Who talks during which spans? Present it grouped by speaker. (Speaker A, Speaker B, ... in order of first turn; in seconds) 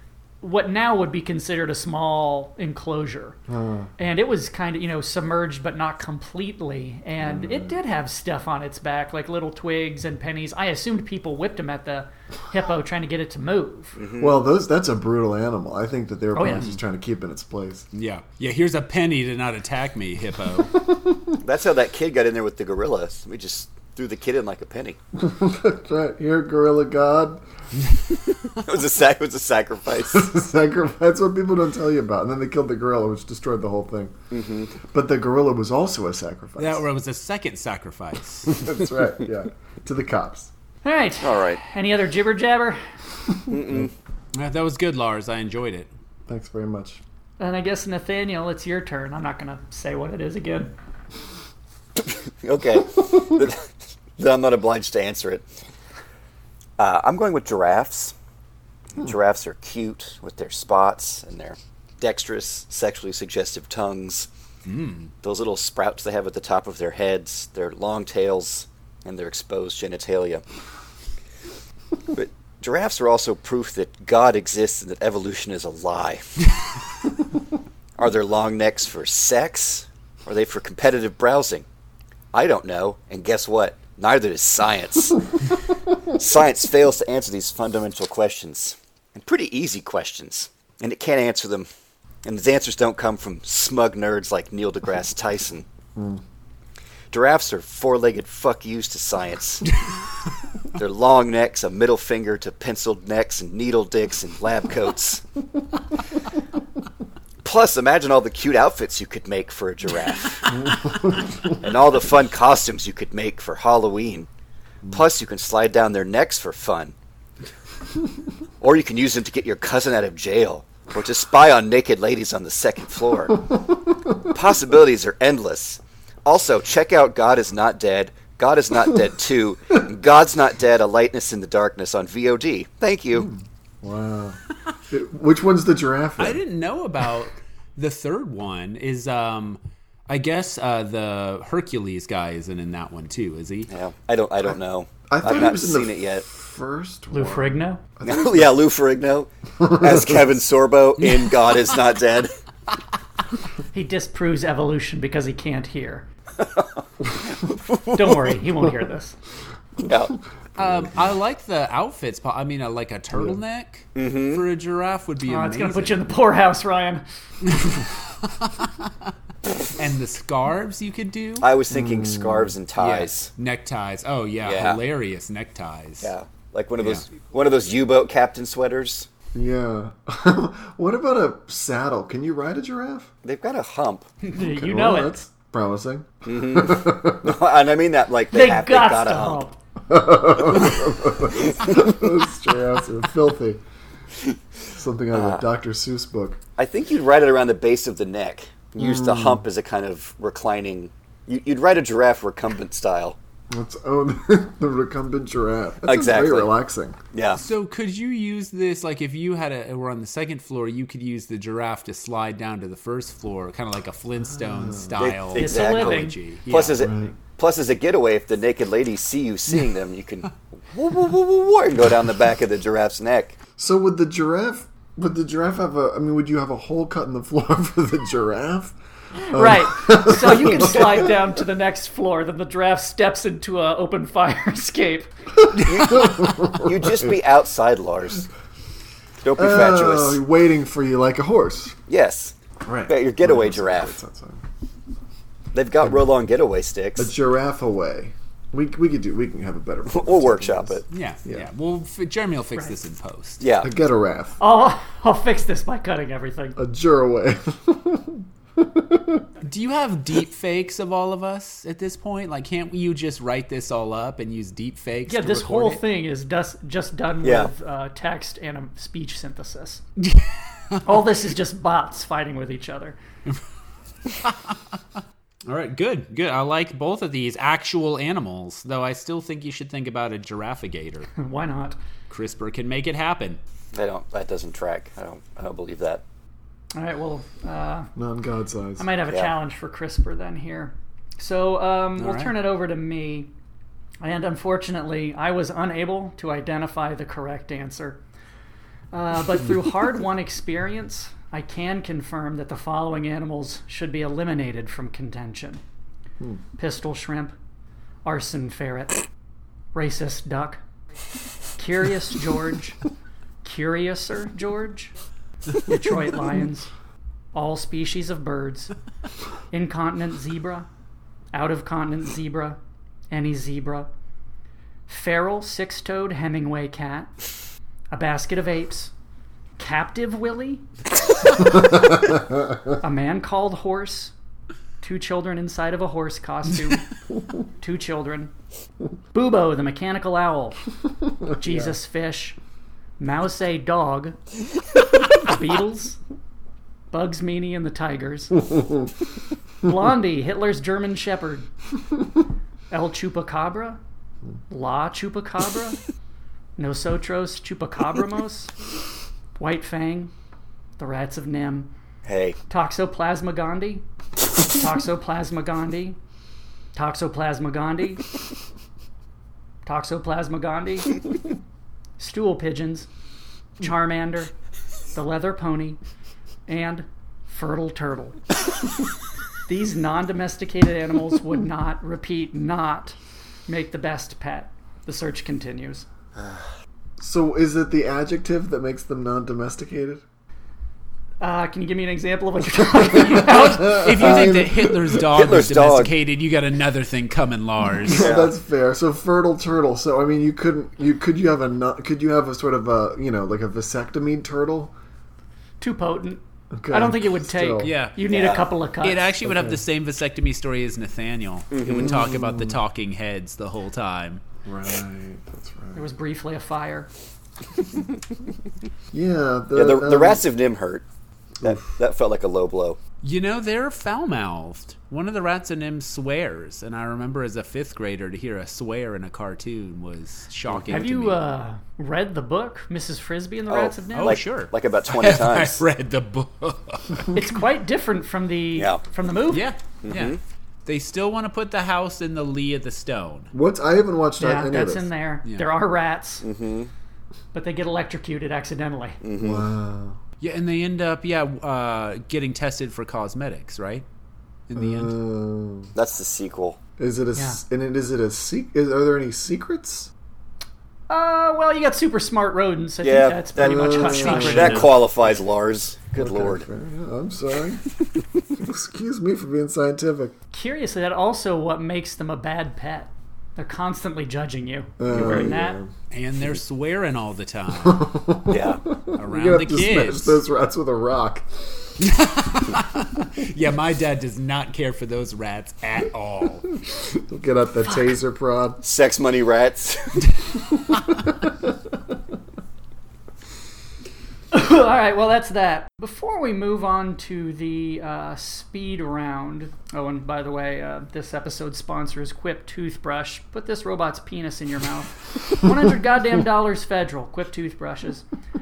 Speaker A: 0.4-3.4, 4.0-13.9, 16.4-16.7, 40.8-42.8, 47.4-50.7, 147.1-147.8, 153.7-156.1, 157.9-159.2, 165.2-167.0, 184.2-185.2, 188.3-189.6, 215.3-216.2, 229.3-235.1, 254.4-256.6, 265.1-269.8, 270.8-273.0, 281.2-281.8, 286.8-287.9, 288.8-293.3, 294.0-298.0, 298.9-305.6, 306.6-307.4, 308.1-309.0, 309.7-310.6, 311.6-312.8, 313.4-314.9, 315.6-316.7, 317.3-318.7, 319.5-320.7, 321.3-322.6, 323.1-323.9, 324.9-327.1, 327.9-328.9, 329.6-330.6, 331.4-331.9, 332.8-334.1, 334.8-336.9, 337.6-338.3, 339.1-340.6, 341.3-342.4, 343.0-344.2, 345.1-346.0, 346.9-348.4, 349.6-351.5, 352.7-353.8, 354.5-355.8, 356.6-358.5, 359.4-360.1, 360.8-361.7, 362.5-363.9, 364.5-366.0, 366.8-368.1, 369.6-371.0, 372.0-372.9, 373.6-374.3, 374.9-375.8, 376.5-378.2, 379.5-385.9, 391.2-393.9, 405.6-406.2, 406.7-409.1, 415.8-416.9, 430.7-434.2, 437.1-439.4, 444.2-446.2, 447.3-449.0, 457.2-457.4, 460.9-464.7, 470.3-475.6, 494.3-508.1
Speaker B: 3.5-3.9, 7.2-7.8, 14.2-17.9, 20.9-21.4, 25.1-27.4, 30.1-34.1, 34.8-36.9, 38.5-40.5, 43.5-43.9, 46.3-47.0, 96.0-96.2, 110.7-111.4, 133.2-134.4, 134.9-136.4, 145.1-148.5, 149.6-150.2, 160.6-161.0, 171.7-172.6, 179.3-183.1, 184.4-187.4, 189.9-193.6, 194.6-196.4, 198.8-199.4, 203.5-207.0, 214.6-215.0, 216.8-217.1, 223.6-228.8, 229.3-231.2, 235.5-237.2, 239.4-241.8, 242.7-244.4, 247.0-251.5, 253.6-254.4, 256.6-259.3, 288.0-288.9, 341.4-341.8, 387.0-390.0, 393.4-394.7, 397.8-404.8, 406.5-407.8, 409.2-409.6, 411.6-412.6, 414.4-415.9, 418.9-420.2, 421.4-421.7, 443.3-444.9, 449.2-450.0, 454.6-455.7, 456.8-459.9, 463.4-464.8, 466.0-467.7, 468.3-470.1, 474.8-475.7, 477.6-481.3, 486.7-488.6, 490.7-491.4
Speaker C: 14.0-14.4, 21.4-25.0, 28.5-30.2, 34.3-34.7, 41.2-41.6, 43.5-43.9, 52.0-55.5, 56.8-58.1, 59.0-64.3, 65.2-70.4, 72.1-76.4, 78.0-81.7, 82.3-85.2, 86.1-91.7, 92.2-95.7, 97.1-99.8, 100.8-105.2, 107.4-110.8, 111.5-114.3, 114.9-117.0, 118.6-123.5, 124.2-133.3, 143.7-146.2, 148.1-152.3, 156.4-156.8, 157.4-158.3, 159.8-160.2, 164.0-164.4, 171.4-173.3, 174.4-174.8, 176.0-179.1, 183.2-184.1, 186.2-189.4, 195.1-195.4, 196.6-203.2, 205.9-206.5, 207.1-207.4, 215.0-223.4, 235.6-238.3, 239.2-240.2, 241.9-242.3, 242.9-243.9, 245.5-247.1, 249.9-250.9, 253.4-253.7, 267.2-267.5, 283.8-286.0, 362.1-362.4, 394.0-395.9, 397.9-398.3, 408.1-408.5, 411.5-411.9, 419.6-420.8, 421.4-422.8, 433.5-435.6, 439.8-440.2, 446.2-446.7, 449.0-449.5, 455.8-456.6, 462.8-466.4, 474.9-475.3, 478.3-478.6, 488.6-490.2
Speaker D: 17.9-20.7, 36.6-38.6, 44.3-45.9, 64.7-65.1, 136.2-143.7, 151.0-151.6, 160.6-166.2, 167.4-169.1, 169.7-171.5, 172.8-176.1, 176.8-177.0, 207.4-216.9, 250.9-253.4, 259.4-265.8, 270.0-270.8, 274.1-274.7, 275.5-281.1, 282.1-283.4, 292.0-292.3, 393.1-398.1, 407.6-408.0, 408.8-414.2, 423.0-431.2, 433.9-437.2, 439.3-443.3, 450.2-453.9, 454.5-454.9, 475.9-477.9, 478.9-480.2, 481.8-486.5